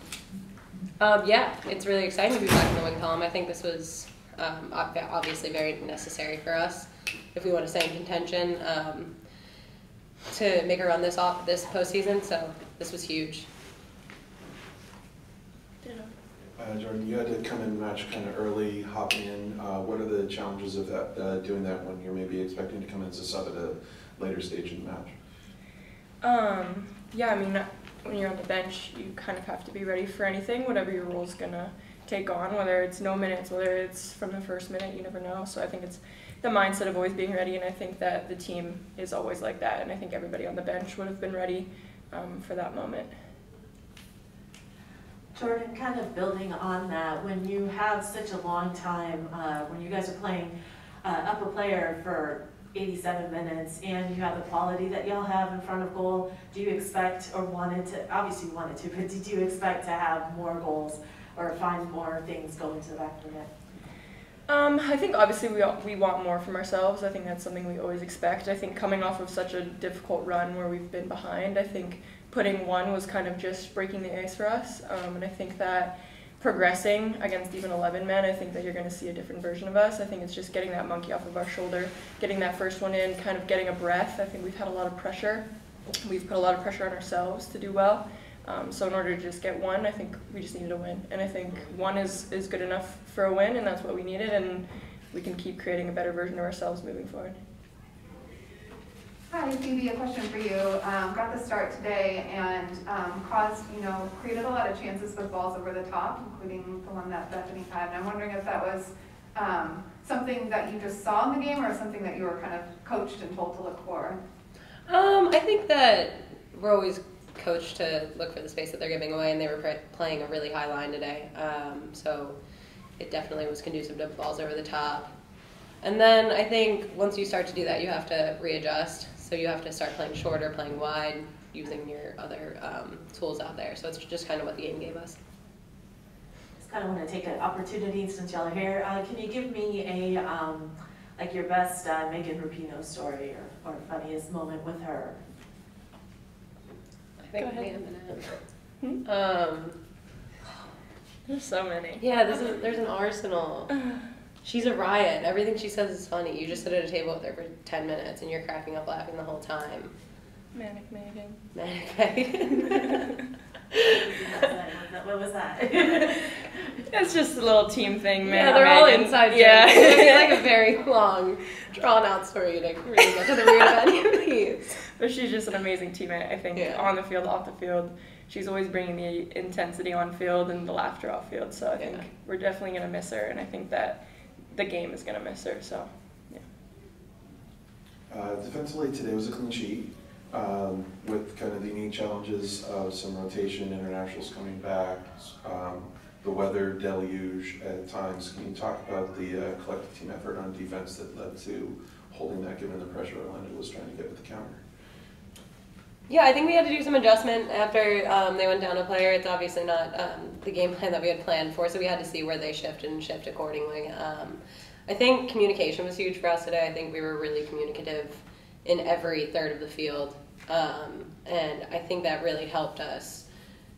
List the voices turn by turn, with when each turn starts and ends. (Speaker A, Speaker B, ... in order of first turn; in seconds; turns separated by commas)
Speaker A: 1.0-9.1, Speaker A: 10.3-13.5, Speaker B: 15.8-16.1, Speaker C: 16.6-25.1, Speaker B: 26.2-43.1, Speaker D: 45.4-50.5, Speaker D: 51.0-63.5, Speaker B: 64.5-85.5, Speaker B: 86.0-97.4, Speaker E: 99.3-114.2, Speaker A: 114.9-122.4, Speaker A: 123.0-125.1, Speaker A: 125.8-135.2, Speaker D: 136.6-145.2, Speaker A: 147.2-148.4, Speaker B: 147.4-147.7, Speaker A: 149.0-149.8, Speaker B: 151.3-152.1, Speaker A: 152.0-153.7, Speaker A: 154.4-159.9, Speaker B: 160.5-161.4, Speaker A: 161.6-163.1, Speaker A: 163.8-164.3, Speaker D: 164.0-166.2, Speaker B: 166.9-170.4, Speaker A: 168.2-174.8, Speaker B: 175.0-186.4, Speaker A: 176.6-176.9, Speaker A: 181.8-182.1, Speaker C: 188.1-204.6, Speaker A: 206.1-223.2